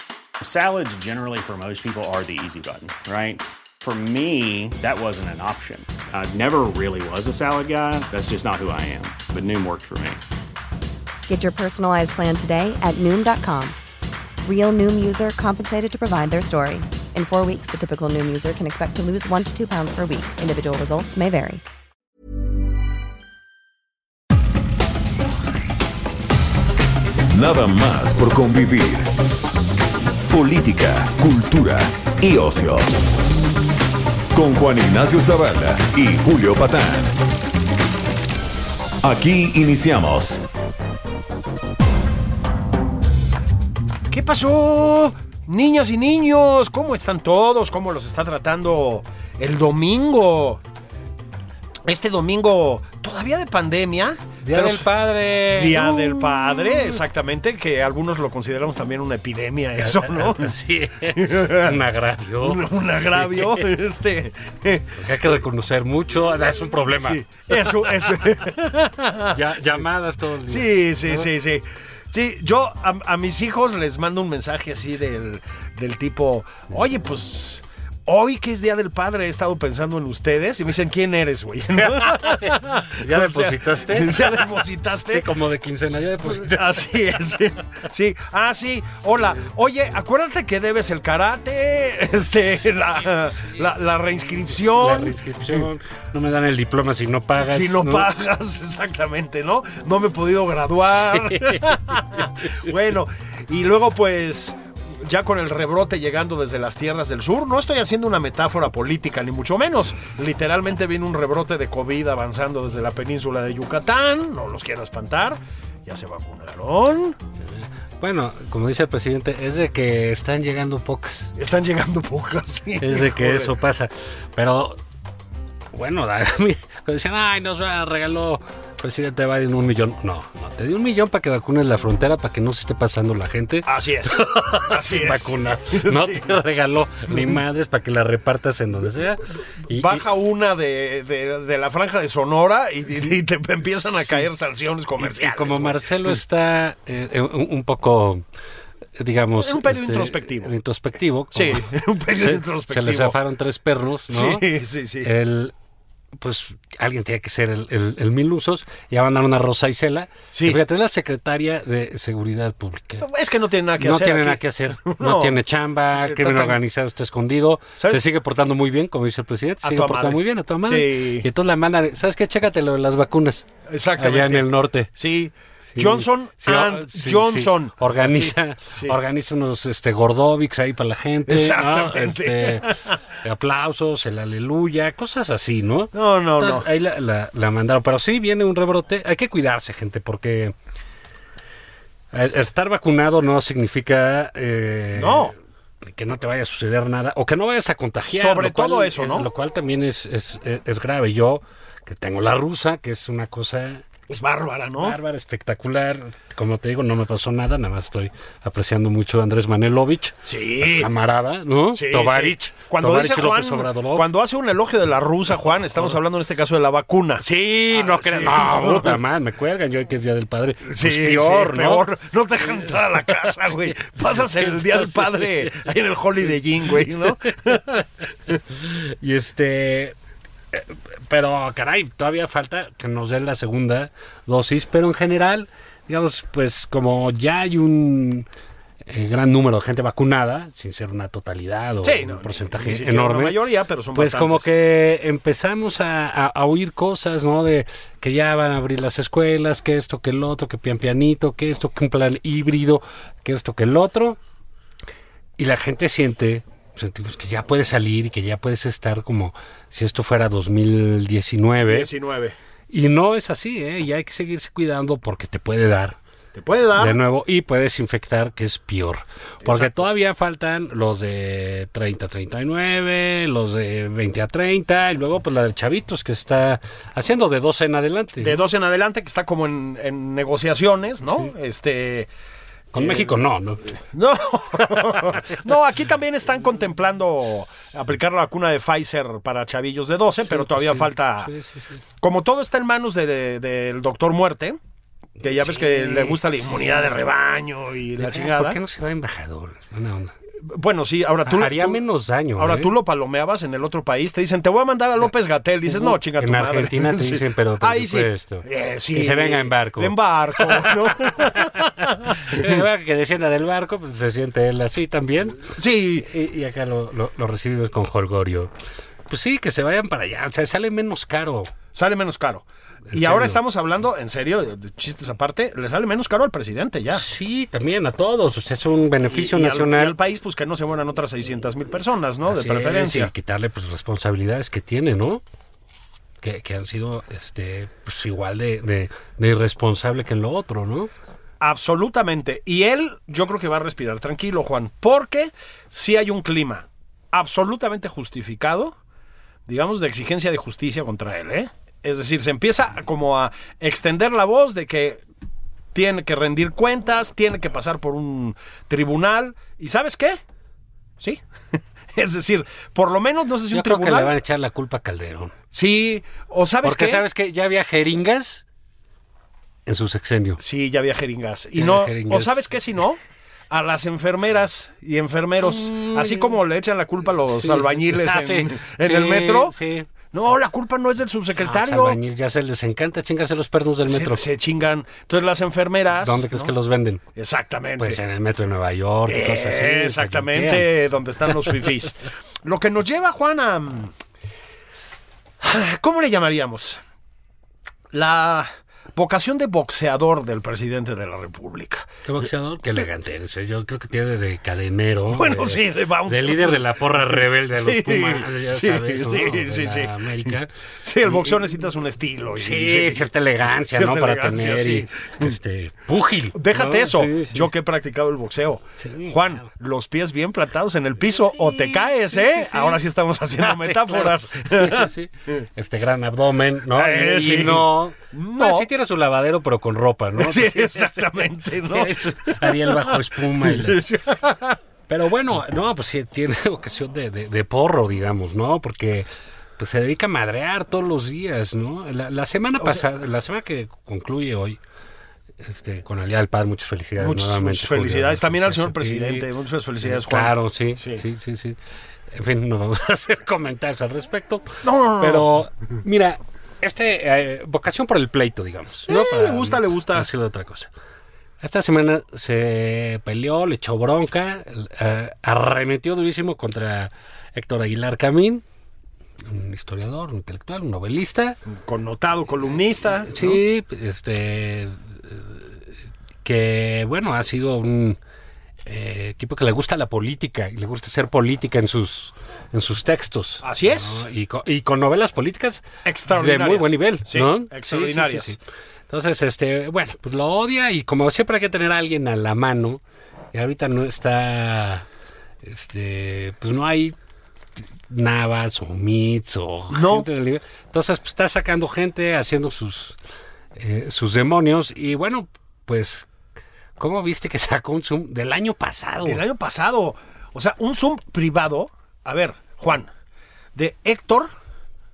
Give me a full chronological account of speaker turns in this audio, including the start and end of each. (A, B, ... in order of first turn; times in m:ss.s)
0:00.4-0:10.2 A
0:11.3-0:13.8 B
0:14.4-0:21.6 B
0:27.3-0:29.2 C
0:30.3-0:33.0 C
0:34.3-0:37.2 C
0:39.0-0:40.4 C
0:44.1-0:50.6 D
0:51.9-0:54.9 D
0:54.4-0:57.0 E
0:55.5-1:00.5 D
0:59.8-1:03.7 E
1:01.2-1:01.8 D
1:02.4-1:05.0 D
1:05.0-1:08.2 E
1:07.0-1:09.4 D
1:09.3-1:11.3 E
1:10.5-1:25.3 D
1:22.0-1:24.4 E
1:25.1-1:27.0 E
1:26.2-1:35.2 D
1:33.0-1:33.7 E
1:34.6-1:38.1 E
1:37.5-1:57.2 D
1:41.1-1:42.7 E
1:57.4-2:01.3 E
2:01.4-2:03.5 D
2:02.8-2:04.8 E
2:05.7-2:20.0 E
2:13.7-2:16.2 D
2:19.7-2:26.1 D
2:23.8-2:24.2 E
2:25.0-2:28.2 E
2:29.0-2:34.5 E
2:29.4-2:30.5 D
2:31.3-2:33.2 D
2:34.1-2:35.1 D
2:35.0-2:35.5 E
2:36.1-2:43.1 E
2:40.3-2:40.6 D
2:43.0-2:45.4 D
2:43.8-2:53.5 E
2:46.0-2:46.6 D
2:49.6-2:51.3 D
2:53.7-2:59.0 D
2:54.0-2:54.9 E
2:55.7-3:10.6 E
3:01.3-3:03.0 D
3:06.0-3:06.7 D
3:12.1-3:23.9 E
3:15.0-3:15.3 D
3:18.1-3:19.3 D
3:24.1-3:25.0 D
3:24.8-3:34.1 E
3:30.3-3:30.9 D
3:31.7-3:39.0 D
3:37.2-3:41.9 E
3:40.7-3:48.4 D
3:42.4-3:45.5 E
3:46.8-3:47.2 E
3:48.5-3:50.0 E
3:50.5-3:58.3 E
3:58.8-4:03.4 E
4:01.8-4:04.5 D
4:03.9-4:14.2 E
4:15.4-4:21.9 E
4:21.6-4:22.4 D
4:22.7-4:26.0 E
4:26.4-4:27.0 D
4:26.8-4:38.4 E
4:29.4-4:29.8 D
4:38.2-4:42.1 D
4:42.7-4:43.8 E
4:42.8-4:43.1 D
4:43.9-4:51.3 D
4:44.7-4:45.6 E
4:50.2-4:51.8 E
4:52.0-4:54.6 D
4:55.2-4:58.6 D
4:55.2-4:57.0 E
4:58.0-5:00.1 E
5:00.5-5:01.8 D
5:01.3-5:02.7 E
5:02.4-5:12.6 D
5:05.7-5:18.5 E
5:15.6-5:16.1 D
5:19.1-5:21.5 E
5:21.7-5:27.1 D
5:22.9-5:23.4 E
5:26.9-5:30.0 E
5:29.1-5:33.1 D
5:32.3-5:35.2 E
5:36.2-5:40.9 E
5:41.4-5:48.7 D
5:49.5-5:55.0 D
5:55.7-6:00.2 D
6:01.9-6:04.1 D
6:03.5-6:05.3 E
6:05.5-6:07.0 D
6:06.6-6:08.4 E
6:09.7-6:10.4 E
6:10.4-6:19.6 D
6:11.6-6:12.4 E
6:15.4-6:16.4 E
6:17.4-6:19.9 E
6:20.1-6:22.0 D
6:21.4-6:24.2 E
6:23.9-6:26.5 D
6:26.0-6:27.0 E
6:27.2-6:28.0 D
6:27.8-6:30.7 E
6:29.1-6:33.9 D
6:35.4-6:36.8 D
6:37.9-6:41.9 D
6:42.1-6:50.5 E
6:45.1-6:50.3 D
6:50.8-6:53.1 D
6:51.0-6:51.6 E
6:52.4-6:57.5 E
6:53.7-6:55.3 D
6:56.4-7:04.9 D
6:58.8-6:59.5 E
7:01.0-7:02.8 E
7:03.4-7:13.9 E
7:06.7-7:08.7 D
7:10.2-7:14.6 D
7:14.9-7:24.6 E
7:25.4-7:29.3 E
7:27.0-7:31.0 D
7:29.8-7:40.7 E
7:34.6-7:35.3 D
7:38.9-7:40.1 D
7:41.4-7:48.4 E
7:49.2-7:51.4 E
7:51.6-7:53.4 D
7:52.8-7:58.0 E
7:58.7-8:08.4 E
8:03.4-8:04.0 D
8:05.8-8:08.4 D
8:08.9-8:12.8 E
8:13.3-8:14.9 E
8:15.4-8:17.0 E
8:17.9-8:23.0 E
8:19.7-8:20.1 D
8:23.6-8:26.1 E
8:26.8-8:29.2 E
8:29.0-8:32.9 D
8:33.6-8:34.3 D